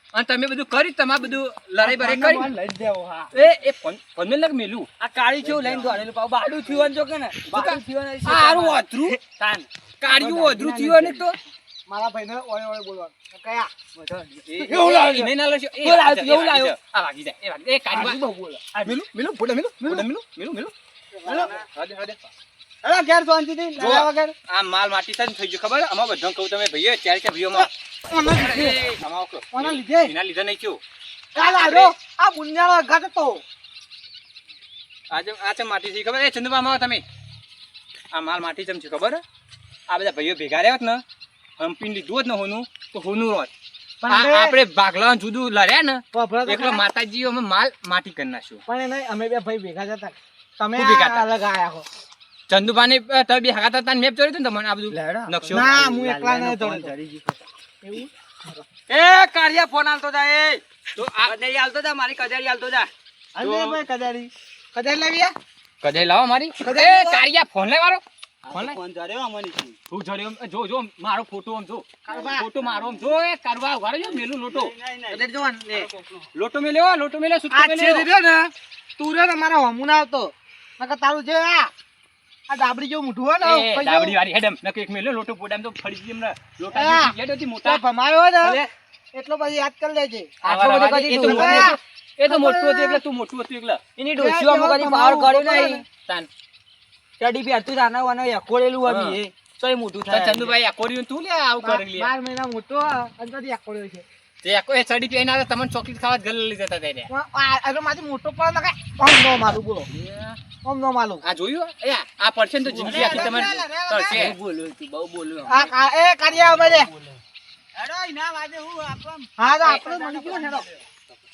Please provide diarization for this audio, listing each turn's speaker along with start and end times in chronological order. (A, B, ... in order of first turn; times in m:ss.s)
0:00.1-0:02.5 A
0:01.8-0:03.4 B
0:03.3-0:04.9 A
0:05.0-0:11.3 B
0:05.4-0:06.0 A
0:07.5-0:09.2 A
0:10.0-0:11.4 A
0:11.9-0:13.7 C
0:14.0-0:15.3 B
0:14.5-0:18.2 A
0:15.8-0:16.8 B
0:17.9-0:18.8 C
0:18.8-0:20.7 A
0:21.1-0:21.6 C
0:21.2-0:21.7 B
0:21.4-0:22.3 A
0:22.8-0:24.3 C
0:23.8-0:30.8 A
0:27.6-0:29.0 C
0:29.5-0:30.1 C
0:31.4-0:33.4 C
0:31.4-0:31.9 A
0:35.1-0:37.0 A
0:38.1-0:39.2 A
0:39.9-0:41.0 A
0:41.6-0:43.5 A
0:44.0-0:44.6 C
0:44.1-0:48.6 A
0:46.1-0:46.8 C
0:48.7-0:51.9 C
0:50.8-0:51.3 A
0:52.5-0:55.7 A
0:54.9-0:57.4 B
0:55.5-0:56.9 C
0:57.8-0:58.6 C
0:58.9-1:00.6 B
1:01.0-1:01.3 A
1:01.2-1:04.3 B
1:03.4-1:03.8 A
1:04.7-1:05.4 C
1:05.8-1:08.8 A
1:06.6-1:07.2 C
1:08.5-1:09.8 B
1:09.9-1:14.7 A
1:12.1-1:12.5 C
1:12.6-1:13.1 B
1:14.0-1:16.3 B
1:15.1-1:15.9 C
1:16.3-1:18.1 A
1:17.5-1:21.7 C
1:22.5-1:24.2 C
1:23.4-1:27.8 A
1:26.7-1:28.6 C
1:29.1-1:30.4 C
1:30.4-1:31.8 B
1:30.4-1:33.8 A
1:31.1-1:33.0 C
1:34.0-1:35.8 B
1:34.2-1:35.8 C
1:37.2-1:40.6 B
1:38.8-1:39.2 A
1:40.1-1:42.1 A
1:41.6-1:44.0 C
1:44.4-1:47.1 A
1:47.1-1:49.9 C
1:50.0-1:50.4 B
1:50.6-1:51.2 C
1:51.2-1:54.4 A
1:52.7-1:55.7 B
1:52.7-1:54.2 C
1:55.5-1:56.9 C
1:56.4-1:57.2 B
1:57.8-1:59.3 B
1:59.4-2:00.7 C
1:59.6-2:00.6 A
1:59.8-2:00.6 B